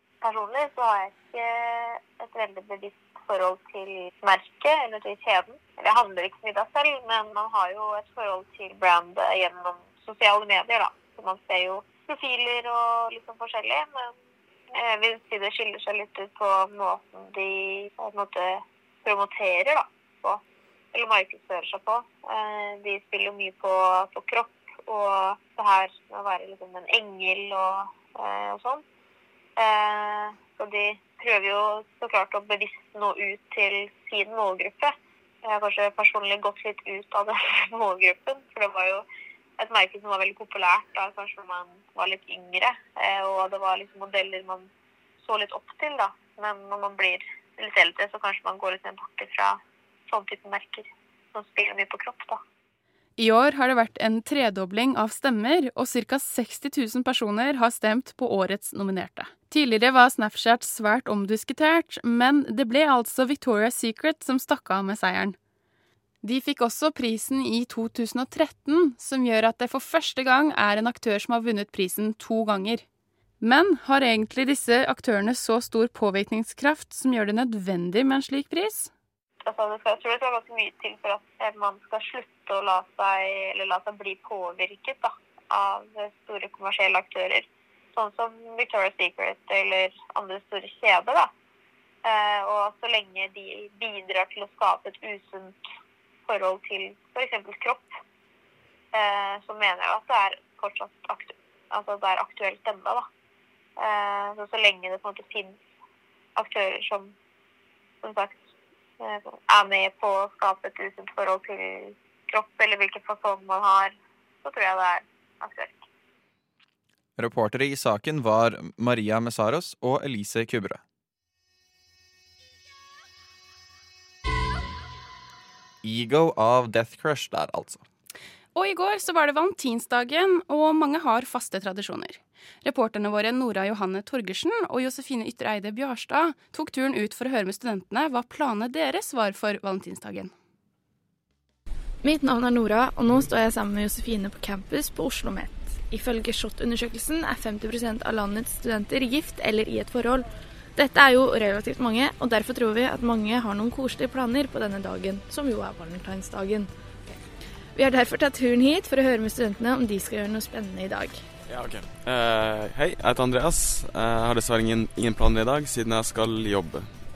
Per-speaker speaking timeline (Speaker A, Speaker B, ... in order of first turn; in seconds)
Speaker A: 0.2-14.1, 14.7-20.4, 20.9-28.8, 29.6-34.9, 35.5-39.0, 39.6-44.7, 45.2-52.4, 79.5-91.3, 92.0-95.6, 96.3-97.9, 98.9-103.1, 103.8-105.6, 106.4-107.1, 108.0-108.4, 109.0-113.9, 114.4-115.8
Speaker B: 53.2-65.4, 66.2-72.8, 73.4-78.9, 128.6-140.3
Speaker C: 117.2-120.8, 125.8-127.8
Speaker D: 142.0-156.7, 157.8-161.2
Speaker E: 161.5-166.9